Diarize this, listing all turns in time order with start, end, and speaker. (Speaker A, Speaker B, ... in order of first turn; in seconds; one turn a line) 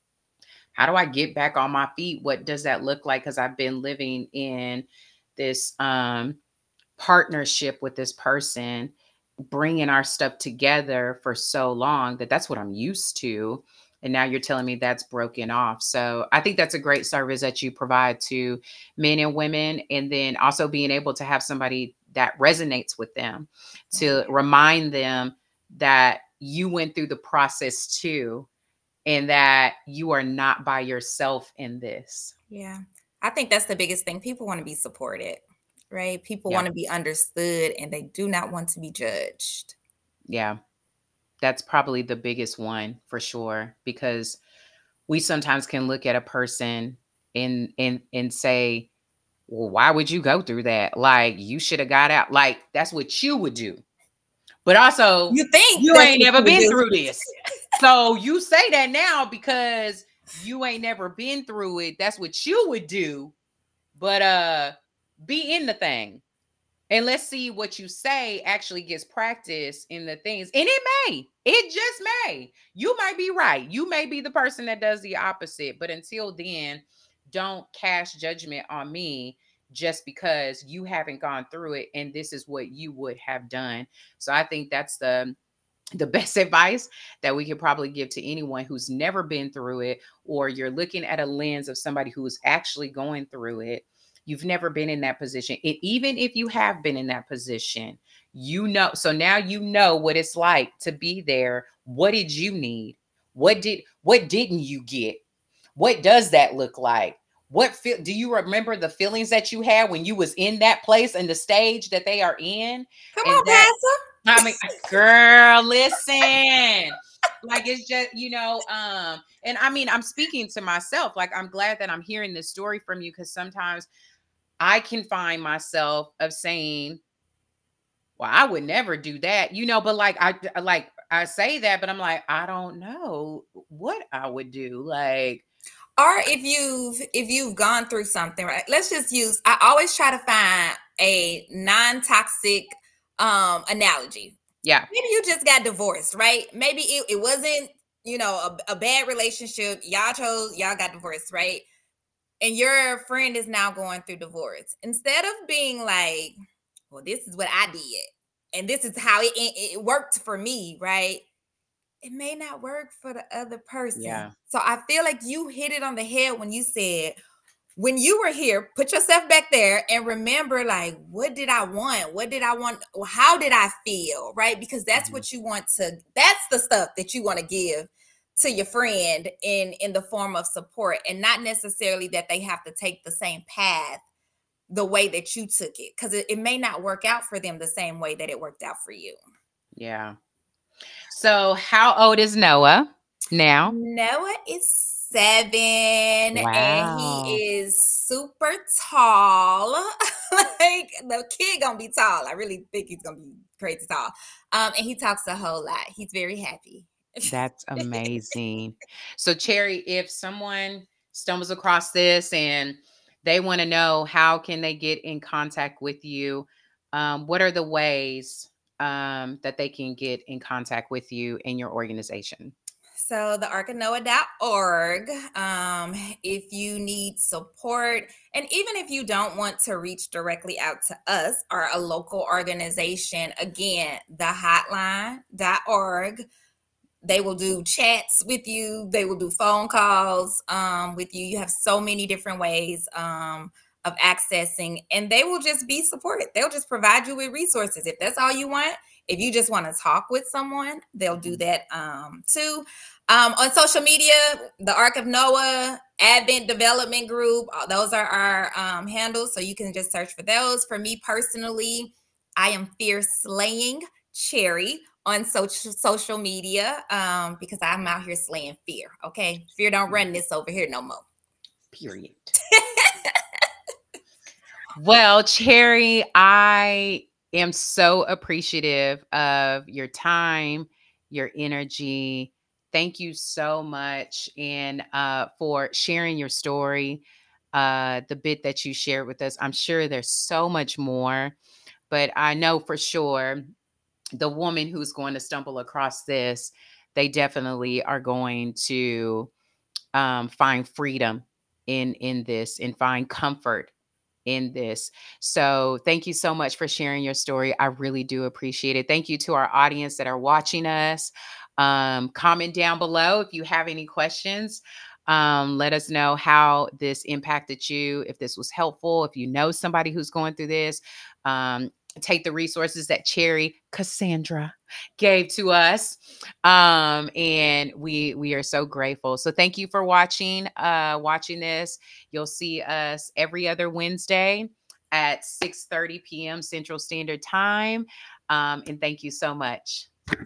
Speaker A: 0.8-6.4
Speaker A: 7.0-8.9
Speaker A: 9.5-28.5
Speaker B: 23.9-24.3
Speaker A: 29.1-32.3
Speaker B: 32.5-39.8
Speaker A: 40.3-40.6
Speaker A: 41.4-44.4
Speaker A: 45.1-48.9
Speaker A: 49.5-53.8
Speaker A: 54.6-63.3
Speaker B: 55.3-56.8
Speaker A: 64.0-66.2
Speaker A: 66.9-85.4
Speaker A: 86.0-105.2
Speaker A: 105.8-113.7
Speaker B: 113.2-114.8
Speaker A: 114.2-123.9
Speaker A: 124.6-127.0
Speaker A: 128.2-135.4
Speaker B: 136.0-144.4
Speaker B: 144.9-151.7
Speaker B: 152.4-156.3
Speaker B: 156.9-161.2
Speaker B: 162.0-167.2
Speaker A: 163.9-164.3
Speaker B: 167.8-184.1
Speaker A: 175.0-175.2
Speaker B: 184.7-189.2
Speaker A: 189.8-190.2
Speaker A: 191.1-193.8
Speaker B: 193.7-199.8
Speaker A: 196.3-197.4
Speaker B: 200.3-208.0
Speaker A: 207.3-222.5
Speaker B: 223.0-236.3
Speaker B: 237.0-271.1
Speaker A: 251.2-251.4
Speaker A: 271.7-272.4
Speaker B: 272.6-273.2
Speaker A: 274.8-287.0
Speaker A: 287.5-291.4
Speaker A: 291.9-293.5
Speaker A: 294.2-299.3
Speaker A: 299.9-303.7
Speaker A: 304.3-339.9